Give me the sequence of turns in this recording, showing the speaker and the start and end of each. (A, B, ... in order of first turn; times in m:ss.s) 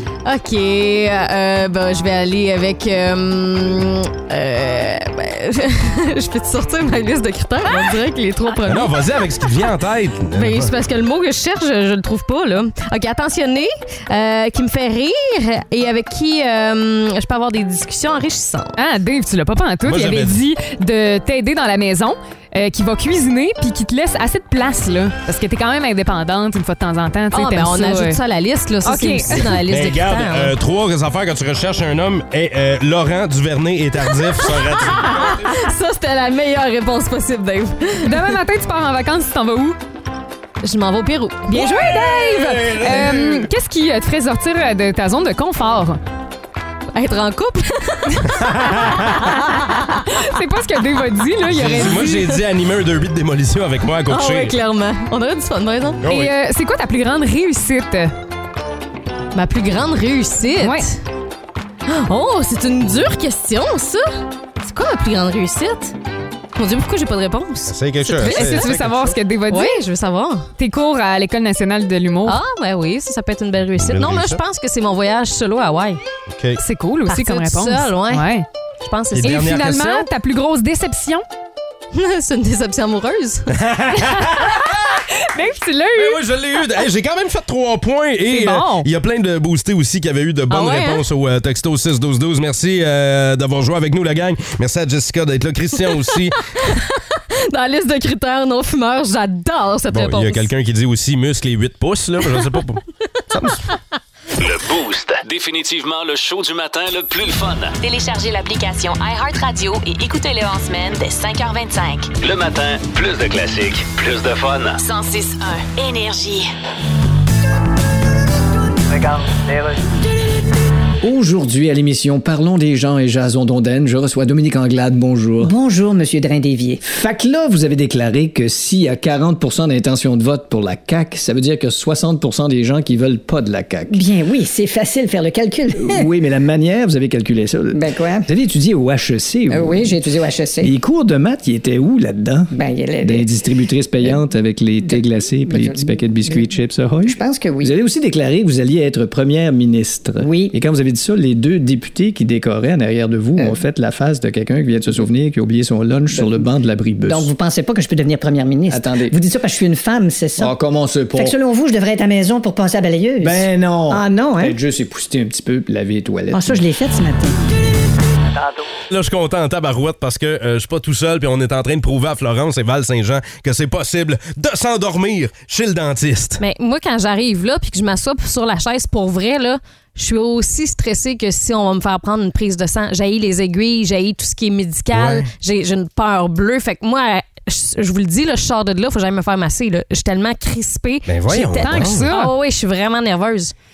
0:00.2-0:09.0 A
0:08.6-0:10.7 B
0:10.3-0:18.7 A
0:18.8-0:28.2 C
0:19.8-0:20.4 B
0:27.3-0:30.5 A
0:28.8-0:29.5 C
0:29.5-0:35.6 B
0:34.1-0:38.3 A
0:38.0-0:39.8 C
0:40.6-0:41.5 A
0:41.5-0:46.0 C
0:41.5-0:43.5 B
0:46.9-0:50.1 A
0:48.4-0:49.3 B
0:50.1-0:52.2 C
0:51.4-0:54.6 B
0:54.1-0:56.0 A
0:56.0-0:56.3 B
0:56.0-0:58.1 C
0:59.3-1:01.0 A
1:00.6-1:00.9 C
1:01.9-1:05.9 A
1:06.6-1:08.7 A
1:07.7-1:09.2 B
1:08.1-1:09.8 C
1:09.5-1:10.5 A
1:10.6-1:12.4 C
1:12.2-1:16.0 A
1:13.8-1:14.4 B
1:16.3-1:16.6 B
1:16.6-1:18.4 C
1:17.1-1:18.3 A
1:18.8-1:19.4 A
1:19.1-1:20.1 B
1:19.2-1:21.2 C
1:21.9-1:23.5 A
1:23.5-1:25.0 B
1:24.1-1:26.2 C
1:25.9-1:36.4 B
1:28.2-1:28.9 C
1:30.5-1:31.0 A
1:36.6-1:40.5 A
1:39.9-1:43.7 B
1:44.4-1:47.8 D
1:47.8-1:52.1 E
1:52.2-1:54.8 D
1:54.8-1:56.5 E
1:58.9-1:59.8 F
2:01.0-2:05.5 G
2:05.4-2:06.8 F
2:06.8-2:14.0 G
2:13.9-2:16.0 F
2:15.8-2:19.9 G
2:17.7-2:18.3 F
2:19.5-2:20.7 F
2:20.6-2:37.3 G
2:22.5-2:23.3 F
2:24.9-2:26.4 F
2:27.0-2:27.7 F
2:30.2-2:30.5 F
2:36.1-2:36.4 F
2:37.0-2:40.5 F
2:38.7-2:39.1 G
2:40.4-2:41.4 G
2:41.1-2:44.6 F
2:43.2-2:46.6 G
2:46.3-2:47.4 F
2:48.3-2:48.6 F
2:48.9-2:56.4 B
2:56.4-3:13.5 A
3:04.9-3:05.3 B
3:11.1-3:12.1 B
3:11.5-3:12.3 C